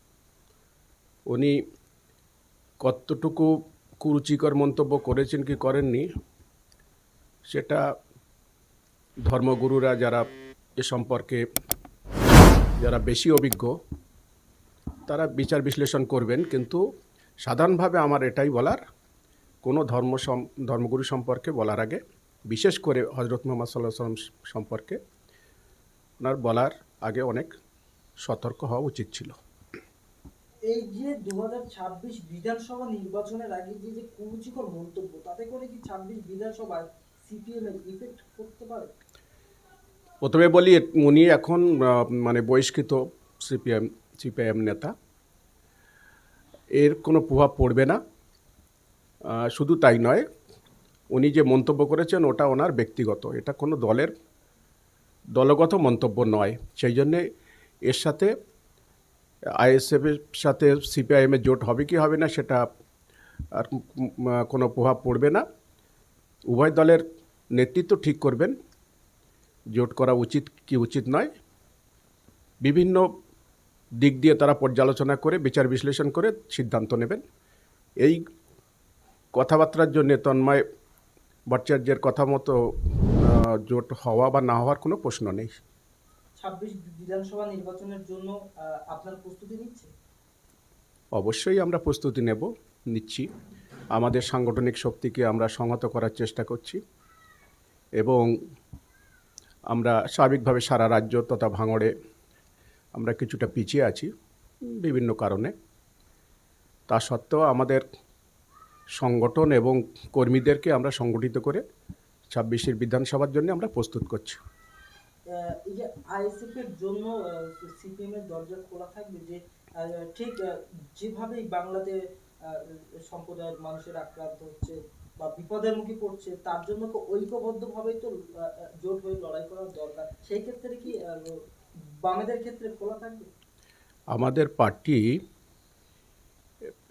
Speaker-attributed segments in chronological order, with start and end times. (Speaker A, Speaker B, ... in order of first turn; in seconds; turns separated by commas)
Speaker A: 1.3-1.6, Speaker A: 2.8-6.1, Speaker A: 7.5-7.8, Speaker A: 9.2-10.3, Speaker A: 10.8-11.4, Speaker A: 12.8-13.8, Speaker A: 15.1-16.8, Speaker A: 17.4-18.8, Speaker A: 19.6-25.0, Speaker A: 26.2-27.5, Speaker A: 28.2-29.4, Speaker B: 30.7-38.9, Speaker A: 40.2-44.9, Speaker A: 46.8-48.0, Speaker A: 49.3-50.3, Speaker A: 51.1-54.1, Speaker A: 55.4-57.2, Speaker A: 57.9-58.3, Speaker A: 59.6-62.6, Speaker A: 63.5-65.4, Speaker A: 66.5-67.0, Speaker A: 67.5-68.5, Speaker A: 69.8-71.3, Speaker A: 72.6-73.1, Speaker A: 74.0-77.2, Speaker A: 79.3-80.6, Speaker A: 81.5-82.6, Speaker A: 83.2-85.5, Speaker B: 86.4-89.9, Speaker A: 91.2-93.3, Speaker A: 94.0-96.8, Speaker A: 98.0-98.3, Speaker A: 99.7-101.9, Speaker A: 103.0-104.1, Speaker A: 104.7-105.5, Speaker A: 106.9-107.8, Speaker A: 109.0-111.6, Speaker A: 112.3-114.4, Speaker B: 115.3-131.4, Speaker B: 132.0-133.3, Speaker A: 134.1-135.1